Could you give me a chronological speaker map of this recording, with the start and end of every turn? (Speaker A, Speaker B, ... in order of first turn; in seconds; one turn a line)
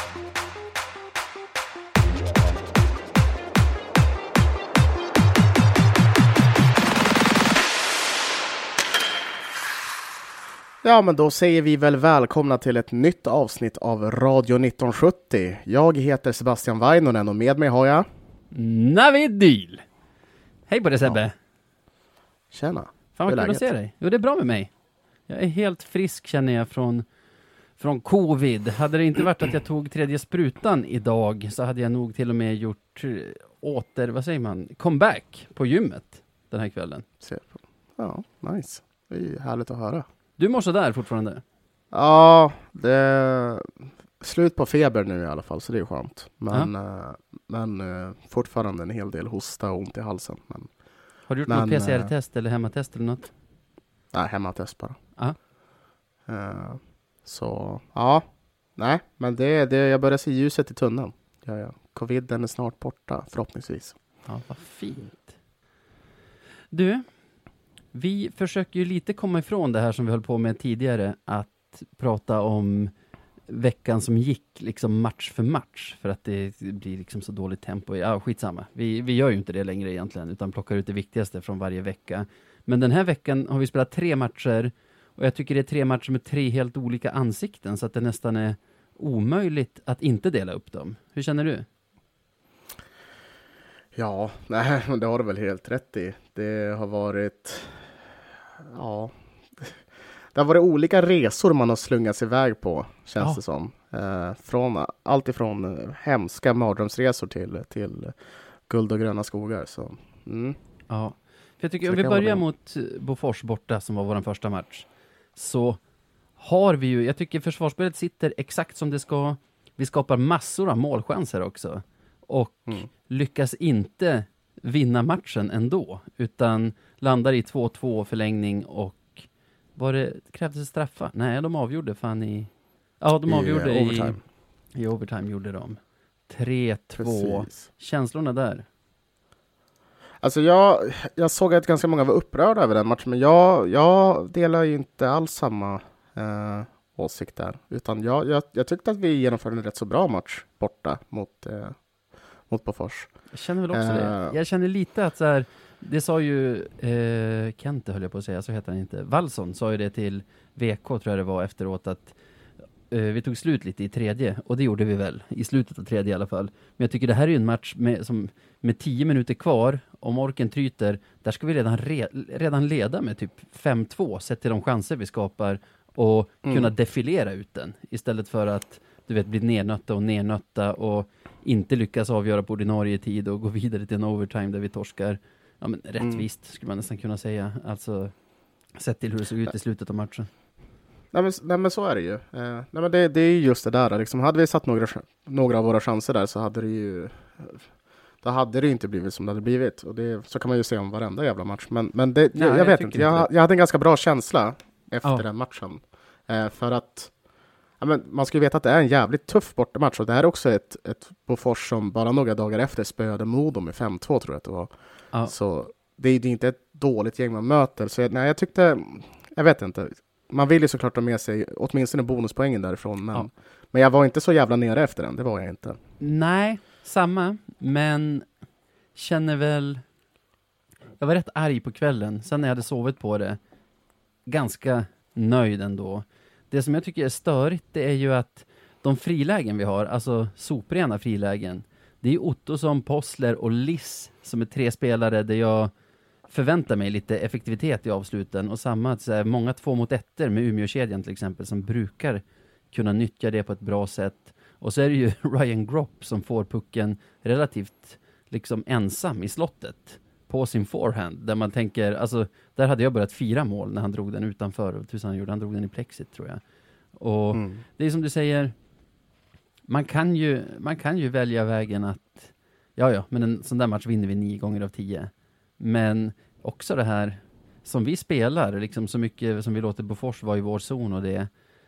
Speaker A: 10.8-18.1
Speaker B: 18.5-19.8
Speaker B: 20.7-21.4
Speaker A: 22.5-23.6
Speaker B: 23.1-24.7
Speaker B: 25.3-27.1
Speaker B: 27.8-37.0
Speaker A: 37.2-40.0
Speaker B: 40.4-41.4
Speaker A: 41.9-50.7
Speaker B: 51.3-53.3
Speaker A: 51.5-52.1
Speaker A: 54.1-55.0
Speaker A: 56.3-64.0
Speaker B: 64.2-65.3
Speaker B: 66.7-67.0
Speaker B: 67.9-72.9
Speaker B: 73.5-91.7
Speaker A: 93.9-97.9
Speaker A: 98.6-99.8
Speaker A: 100.3-110.6
Speaker B: 110.9-115.8
Speaker A: 111.8-112.4
Speaker B: 116.4-134.2
Speaker A: 133.3-134.2
Speaker B: 134.7-138.7
Speaker A: 137.0-137.7
Speaker A: 140.2-151.8
Speaker A: 152.5-153.1
Speaker B: 153.3-162.2
Speaker A: 153.7-154.3
Speaker B: 162.9-188.1
Speaker A: 176.4-176.7
Speaker A: 186.0-186.2
Speaker B: 188.8-190.3
Speaker A: 191.1-197.6
Speaker A: 198.2-207.1
Speaker B: 202.3-203.3
Speaker A: 207.8-214.7
Speaker A: 215.2-225.8
Speaker B: 226.0-228.2
Speaker B: 228.9-229.8
Speaker B: 231.0-233.4
Speaker B: 234.2-245.7
Speaker B: 246.3-266.4
Speaker B: 266.9-268.5
Speaker A: 267.3-267.6
Speaker B: 269.7-281.3